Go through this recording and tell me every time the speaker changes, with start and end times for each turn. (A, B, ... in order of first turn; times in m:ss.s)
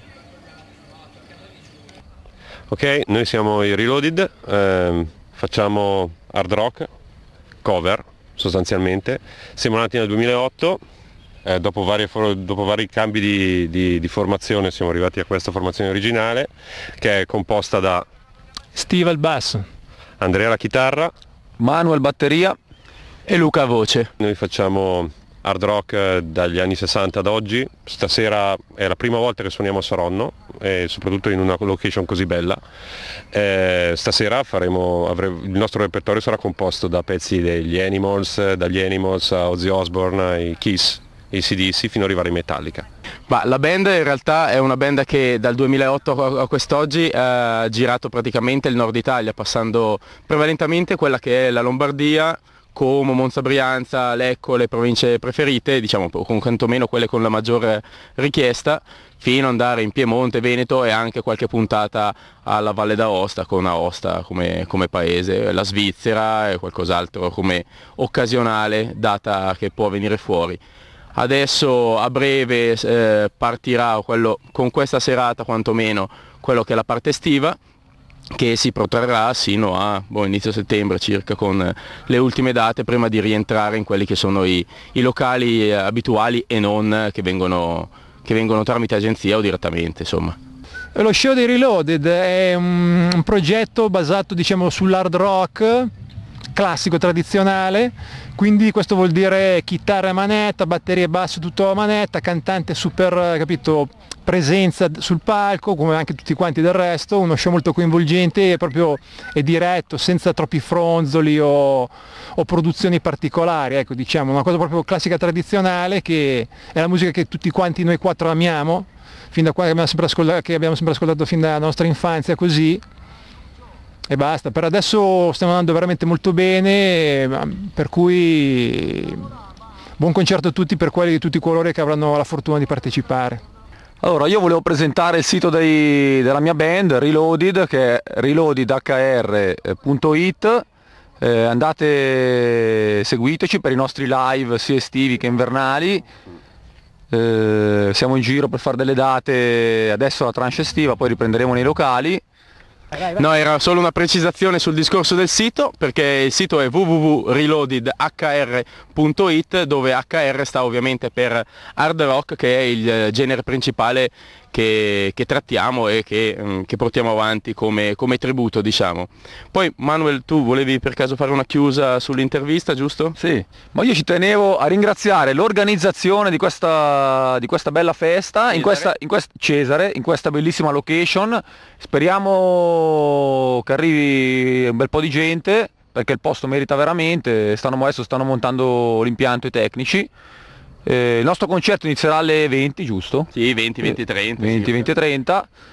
0:02.7-0:06.9 A
0:07.6-0:10.8 A
0:11.4-0:18.0 A
0:18.7-0:19.6 B
0:20.2-0:21.1 A
0:21.6-0:22.6 C
0:23.3-0:24.1 D
0:24.2-0:32.6 A
0:33.3-0:42.8 A
0:43.3-1:10.6 D
1:11.2-1:17.6 D
1:18.3-1:30.4 D
1:31.0-1:35.9 B
1:36.5-2:02.8 B
2:04.1-2:09.3 B
2:10.0-2:13.4 B
2:14.0-2:20.6 C
2:21.2-2:26.0 C
2:27.1-2:32.2 C
2:32.9-2:53.2 D
2:53.2-3:10.1 C
2:58.5-2:58.9 D
3:10.8-3:13.3 C
3:13.3-3:14.9 D
3:13.8-3:15.5 C